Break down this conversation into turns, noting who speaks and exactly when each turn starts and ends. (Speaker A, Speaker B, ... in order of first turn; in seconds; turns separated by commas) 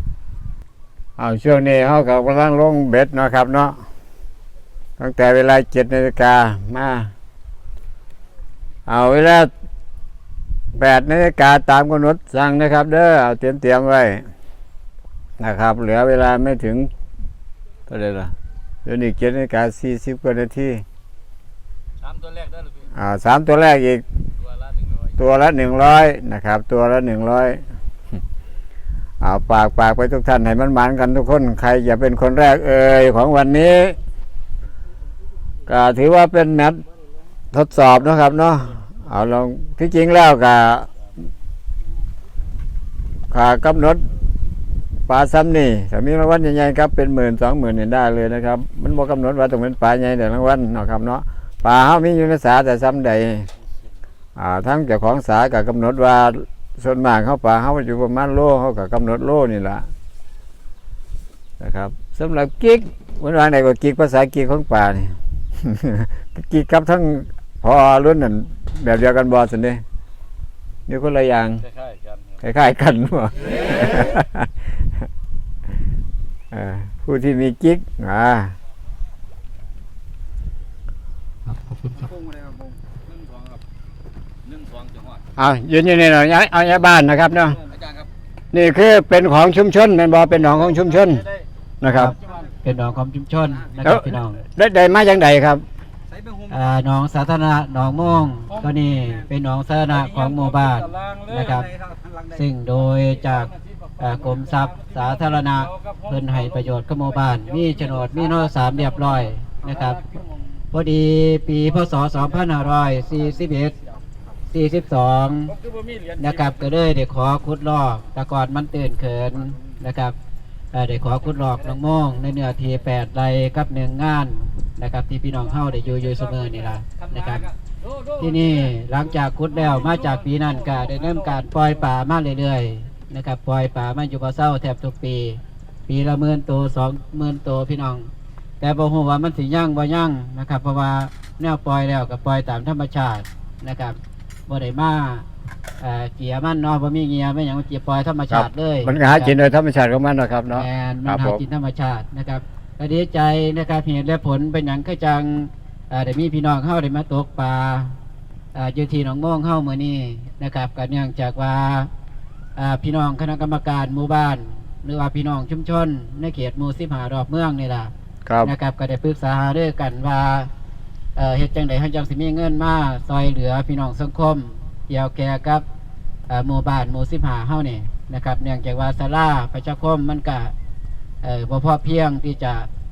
Speaker A: 1.2-3.8, Speaker A: 5.0-7.1, Speaker A: 8.9-9.5, Speaker A: 10.7-14.3, Speaker A: 15.4-16.9, Speaker A: 17.9-18.3, Speaker A: 18.8-20.8, Speaker B: 22.0-22.9, Speaker A: 22.9-24.0, Speaker B: 24.4-25.1, Speaker A: 25.2-27.6, Speaker A: 29.2-34.0, Speaker A: 35.7-36.8, Speaker A: 37.5-40.9, Speaker A: 43.3-44.0, Speaker A: 45.1-53.5, Speaker A: 54.4-59.9, Speaker A: 61.6-69.8, Speaker A: 70.9-71.6, Speaker B: 71.6-72.4, Speaker A: 72.4-74.5, Speaker A: 76.5-78.5, Speaker B: 82.1-83.6, Speaker B: 84.4-85.2, Speaker A: 85.4-87.6, Speaker B: 87.7-88.1, Speaker A: 88.5-91.3, Speaker A: 91.8-92.2, Speaker C: 91.9-94.4, Speaker A: 93.8-95.6, Speaker C: 96.5-101.7, Speaker B: 100.1-101.9, Speaker C: 102.3-110.0, Speaker B: 105.7-106.4, Speaker B: 109.7-110.2, Speaker C: 110.7-113.8, Speaker C: 114.5-115.5, Speaker B: 115.5-116.5, Speaker C: 116.2-120.2, Speaker C: 120.7-127.5, Speaker C: 128.2-145.2, Speaker C: 145.8-149.3, Speaker A: 148.3-151.4, Speaker C: 150.5-158.0, Speaker C: 158.5-161.9, Speaker C: 162.6-167.9, Speaker A: 168.2-168.5, Speaker C: 168.4-170.5, Speaker C: 171.2-175.6, Speaker C: 176.3-180.5, Speaker C: 181.2-182.7